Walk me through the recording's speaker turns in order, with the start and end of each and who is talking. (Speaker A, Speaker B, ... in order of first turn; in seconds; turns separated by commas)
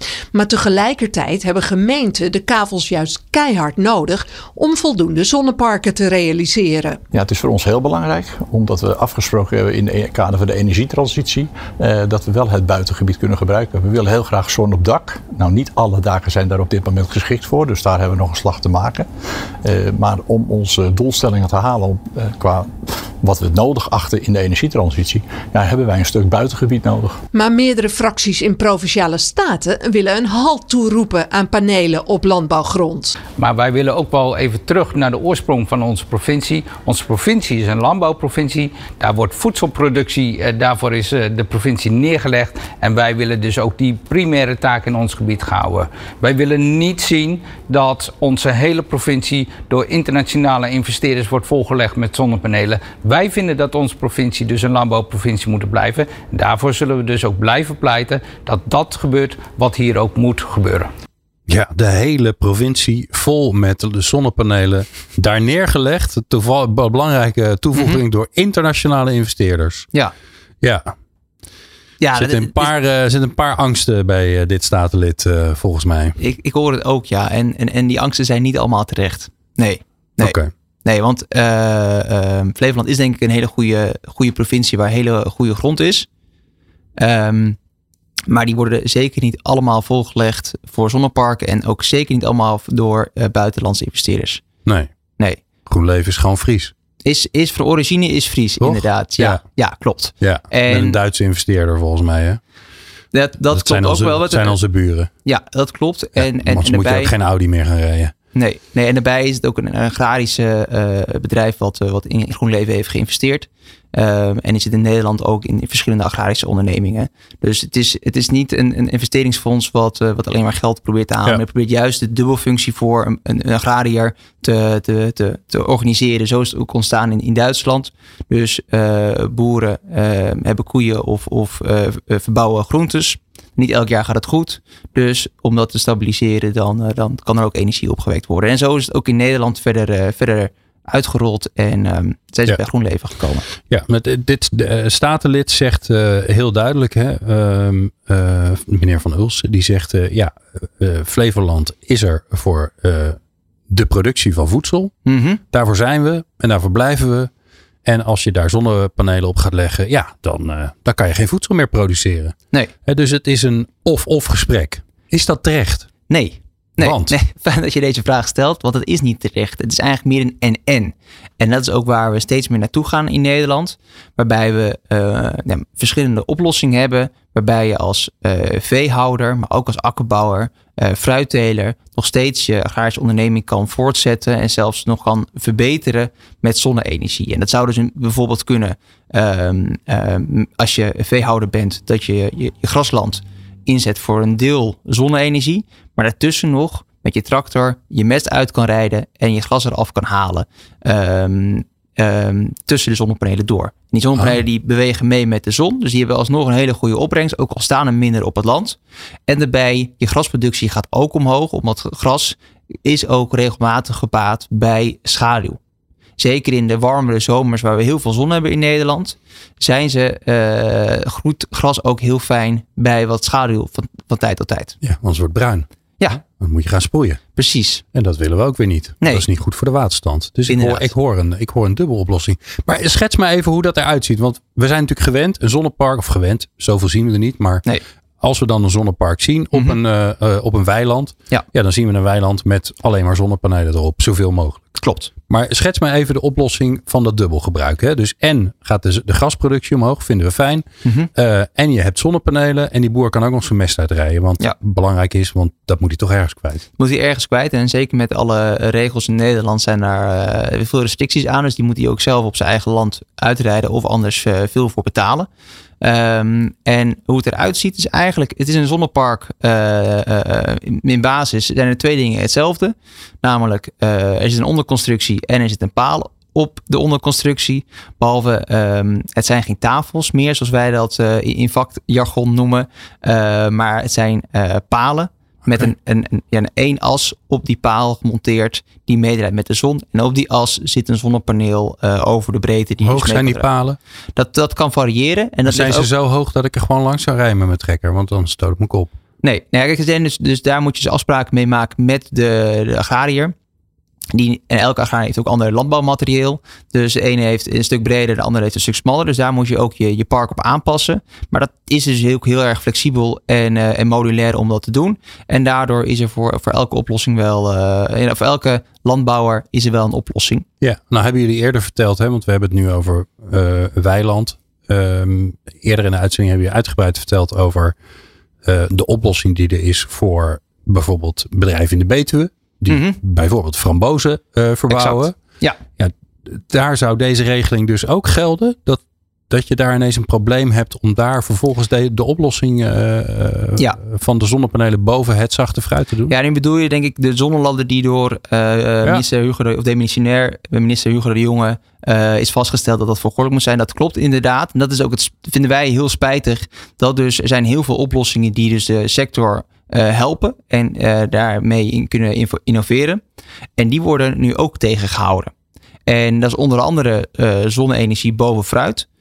Speaker A: 0.3-7.0, Speaker B: 7.1-19.1, Speaker B: 19.6-27.2, Speaker A: 27.3-33.1, Speaker C: 33.4-60.9, Speaker D: 61.5-69.9, Speaker E: 67.7-68.0, Speaker D: 70.6-70.9, Speaker E: 72.0-72.7, Speaker D: 72.1-76.2, Speaker E: 76.2-86.1, Speaker D: 80.2-80.5, Speaker E: 87.0-87.6, Speaker E: 88.3-94.4, Speaker D: 94.6-94.9, Speaker D: 95.6-96.7, Speaker E: 97.0-101.0, Speaker D: 98.6-99.4, Speaker D: 100.2-102.4, Speaker E: 103.1-104.6, Speaker D: 103.5-105.1, Speaker E: 105.2-107.1, Speaker D: 106.2-108.1, Speaker E: 108.3-143.4, Speaker D: 143.6-154.9, Speaker E: 155.1-155.4, Speaker D: 155.5-157.3, Speaker D: 157.8-165.9, Speaker E: 166.1-215.6, Speaker D: 166.8-167.2, Speaker E: 216.2-224.8, Speaker D: 224.8-227.2, Speaker E: 227.3-227.8, Speaker D: 227.9-237.6, Speaker E: 230.5-230.9, Speaker D: 238.2-244.7, Speaker E: 244.8-245.1, Speaker D: 245.2-256.6, Speaker E: 256.8-265.3, Speaker E: 265.8-293.5, Speaker D: 292.8-293.8, Speaker E: 294.1-295.9, Speaker D: 295.4-298.9, Speaker E: 299.2-303.3, Speaker E: 304.1-320.4, Speaker D: 320.6-327.7, Speaker D: 328.4-335.2, Speaker E: 332.7-333.0, Speaker E: 334.7-335.6, Speaker D: 335.7-346.1, Speaker E: 346.1-363.0, Speaker E: 363.6-365.3, Speaker E: 365.9-368.9